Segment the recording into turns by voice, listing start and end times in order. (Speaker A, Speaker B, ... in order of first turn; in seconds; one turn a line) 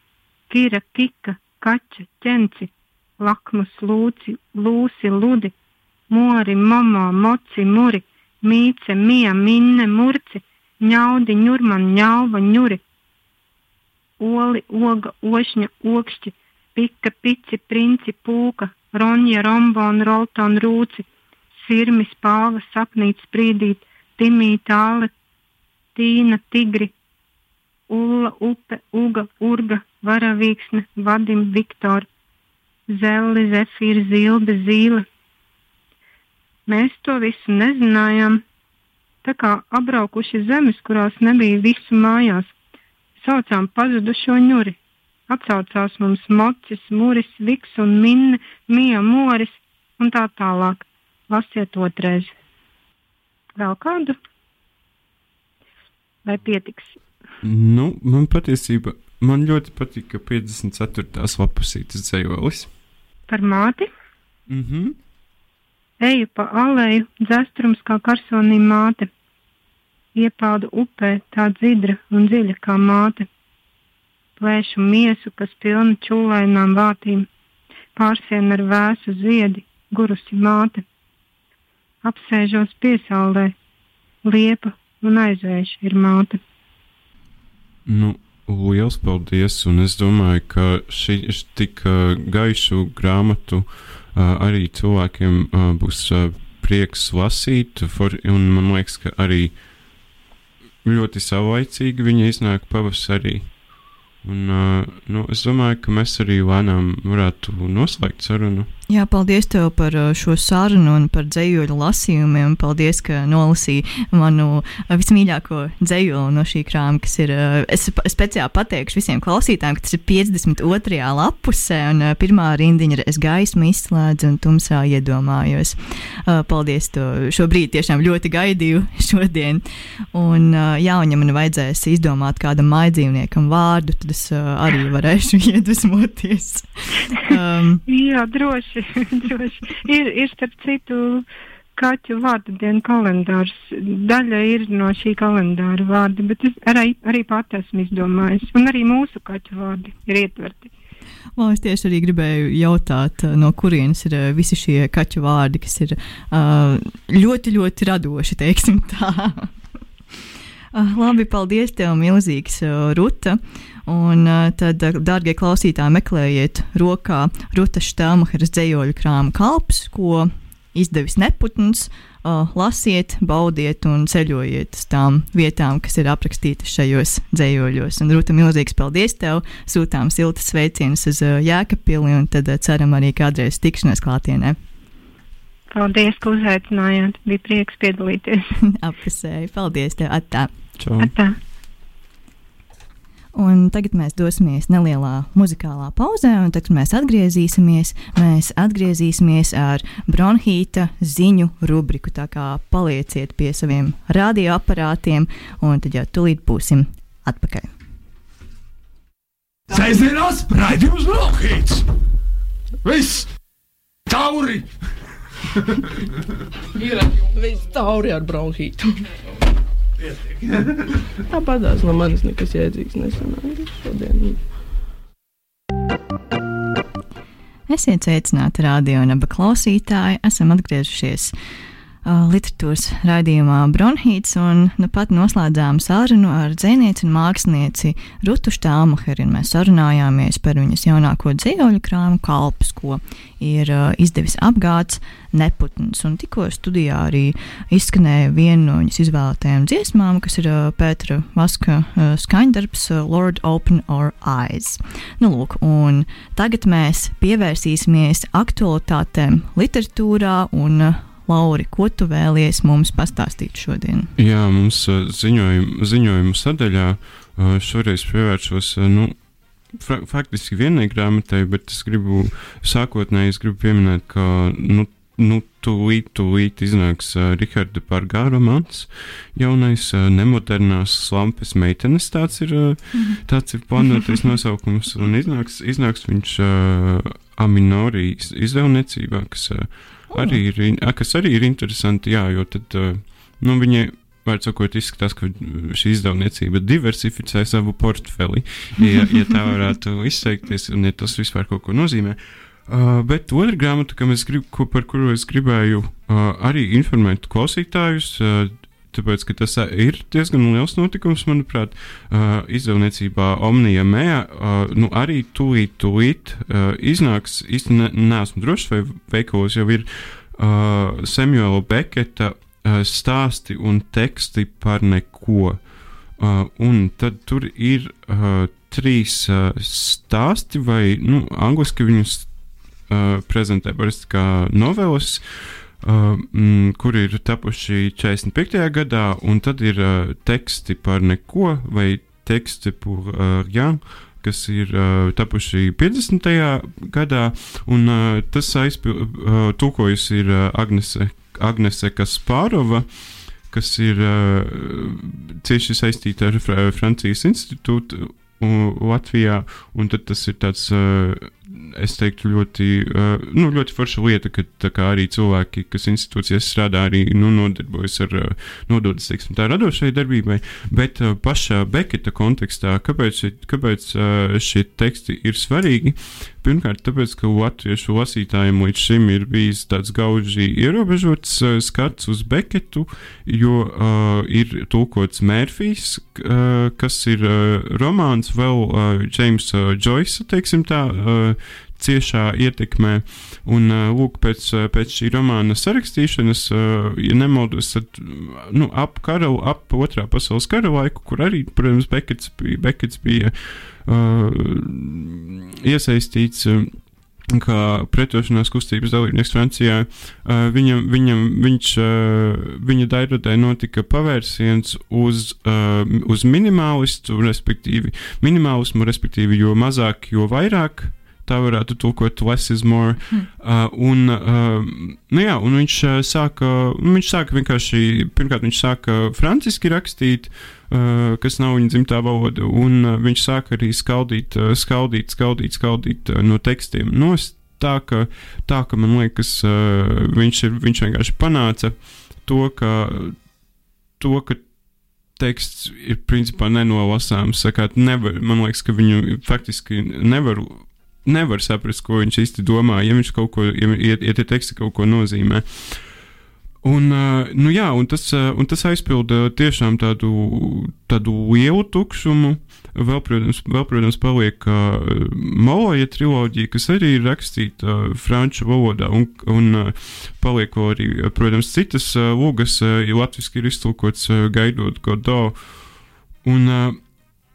Speaker A: 0.5-5.5
Speaker A: 6.1-12.8
Speaker A: 14.2-25.1
Speaker A: 25.9-26.9
Speaker A: 27.9-32.1
Speaker A: 32.9-35.0
Speaker A: 36.7-38.4
Speaker A: 39.2-42.5
Speaker A: 43.2-44.8
Speaker A: 45.3-52.3
Speaker A: 53.6-54.2
Speaker A: 56.2-57.0
Speaker B: 57.4-62.7
Speaker A: 63.3-63.9
Speaker B: 64.5-65.0
Speaker A: 66.0-69.1
Speaker A: 70.2-73.3
Speaker A: 74.4-77.3
Speaker A: 78.0-80.8
Speaker A: 82.0-83.5
Speaker A: 84.2-86.4
Speaker B: 87.9-99.6
Speaker B: 100.8-103.5
Speaker B: 104.2-108.7
Speaker C: 108.9-137.8
Speaker A: 137.9-141.2
Speaker A: 141.8-150.7
Speaker C: 151.4-159.5
Speaker C: 160.7-184.6
Speaker A: 185.7-188.5
Speaker C: 188.6-190.5
Speaker B: 190.8-191.1
Speaker A: 191.0-191.4
Speaker C: 193.3-207.7
Speaker D: 209.7-211.8
Speaker D: 212.8-213.3
Speaker D: 214.1-214.8
Speaker E: 216.8-219.1
Speaker D: 220.0-221.1
Speaker E: 221.3-224.5
Speaker C: 227.7-231.3
Speaker C: 232.0-264.1
Speaker B: 264.2-269.2
Speaker B: 269.7-325.6
Speaker C: 290.1-290.4
Speaker B: 326.2-332.3
Speaker B: 332.9-443.3
Speaker B: 444.0-444.5
Speaker B: 445.1-455.8
Speaker B: 456.6-476.8